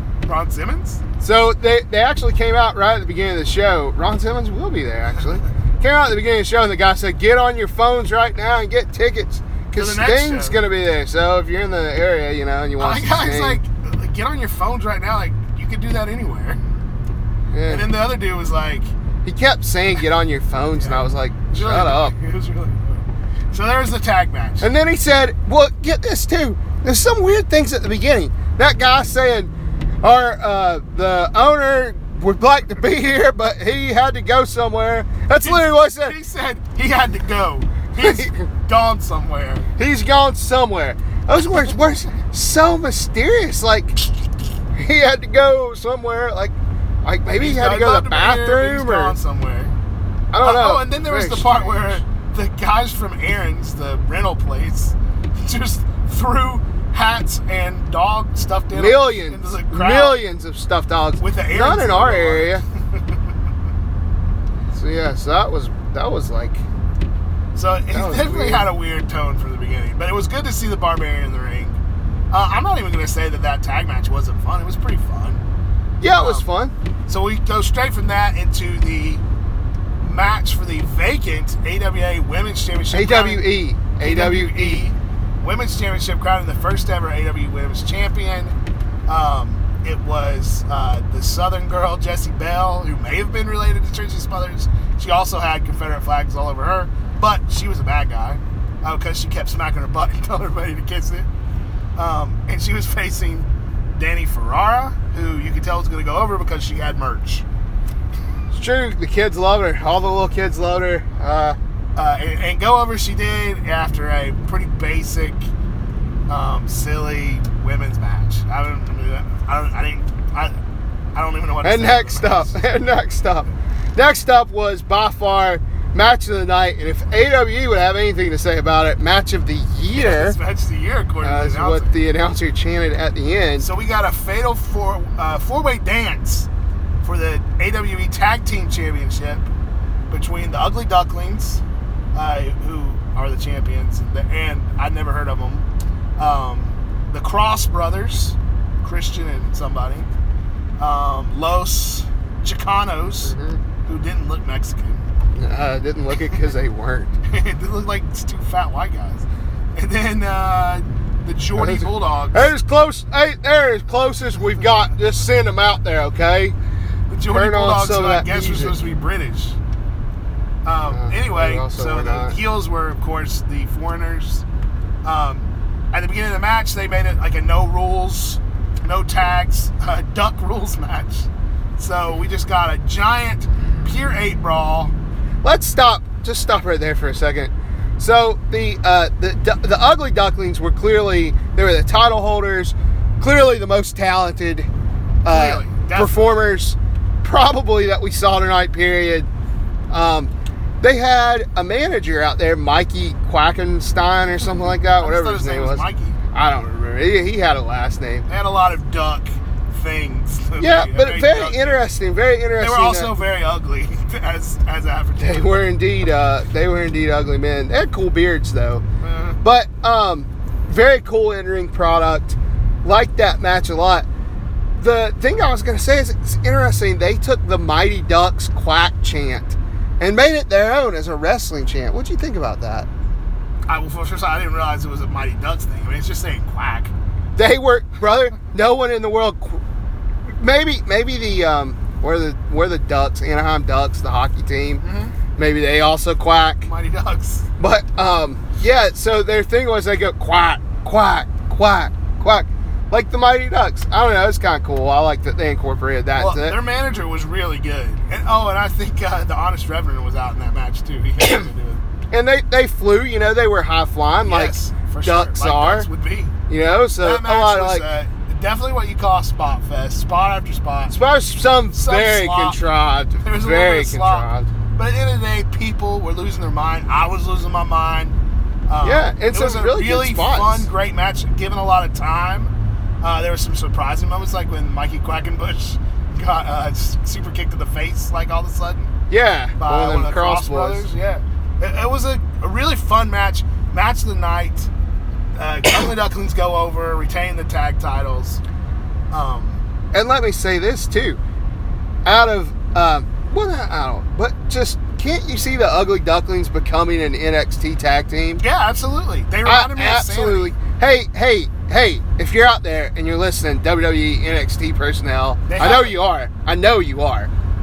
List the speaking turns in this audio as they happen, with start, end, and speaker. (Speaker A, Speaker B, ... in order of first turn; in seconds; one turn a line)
Speaker A: 0.3-1.0
Speaker B: 1.2-13.6
Speaker A: 9.8-10.6
Speaker A: 12.8-16.6
Speaker B: 17.5-17.9
Speaker A: 17.7-18.9
Speaker B: 19.2-22.1
Speaker A: 20.8-24.7
Speaker B: 24.6-36.2
Speaker A: 35.4-39.7
Speaker B: 38.0-38.5
Speaker B: 39.8-44.0
Speaker B: 44.7-49.2
Speaker A: 47.4-49.7
Speaker B: 50.3-52.0
Speaker A: 50.4-60.2
Speaker B: 58.7-62.6
Speaker A: 61.2-63.0
Speaker B: 64.7-66.6
Speaker A: 67.5-71.8
Speaker B: 67.9-68.7
Speaker A: 72.3-75.4
Speaker B: 76.0-76.7
Speaker A: 76.1-76.5
Speaker A: 77.1-79.2
Speaker A: 80.0-83.5
Speaker B: 82.9-84.9
Speaker A: 84.0-88.5
Speaker A: 89.1-101.3
Speaker A: 102.0-107.5
Speaker B: 108.5-111.6
Speaker A: 112.0-115.4
Speaker A: 116.3-120.5
Speaker A: 121.2-122.5
Speaker B: 121.6-130.4
Speaker A: 129.9-132.0
Speaker B: 131.2-133.7
Speaker A: 133.6-136.5
Speaker A: 137.0-139.5
Speaker A: 140.1-141.6
Speaker A: 142.1-150.1
Speaker A: 150.8-155.1
Speaker B: 153.2-153.6
Speaker B: 155.3-157.1
Speaker A: 157.3-162.5
Speaker B: 161.6-166.6
Speaker A: 167.1-169.6
Speaker B: 167.3-168.8
Speaker A: 170.7-174.4
Speaker B: 170.9-172.4
Speaker A: 175.0-184.9
Speaker B: 185.4-194.7
Speaker B: 195.2-199.3
Speaker A: 195.3-196.3
Speaker B: 199.9-208.2
Speaker A: 205.0-206.2
Speaker A: 208.3-211.9
Speaker B: 210.6-213.2
Speaker A: 212.6-215.6
Speaker B: 215.2-218.8
Speaker A: 219.0-219.4
Speaker B: 219.4-224.1
Speaker B: 224.8-232.9
Speaker A: 233.7-236.9
Speaker B: 237.4-239.6
Speaker B: 240.4-244.8
Speaker A: 244.8-245.2
Speaker B: 245.4-246.7
Speaker A: 246.6-247.5
Speaker B: 247.6-256.6
Speaker A: 256.1-261.8
Speaker B: 262.1-265.9
Speaker A: 264.2-266.3
Speaker B: 266.5-267.9
Speaker A: 267.0-271.0
Speaker B: 270.9-274.5
Speaker A: 271.7-272.6
Speaker A: 273.2-278.2
Speaker A: 278.7-288.9
Speaker B: 278.8-280.7
Speaker B: 289.1-290.9
Speaker A: 289.6-294.7
Speaker A: 295.4-298.4
Speaker A: 299.1-299.6
Speaker B: 299.9-301.2
Speaker B: 302.1-308.4
Speaker A: 308.4-310.5
Speaker B: 309.4-317.3
Speaker A: 315.5-316.0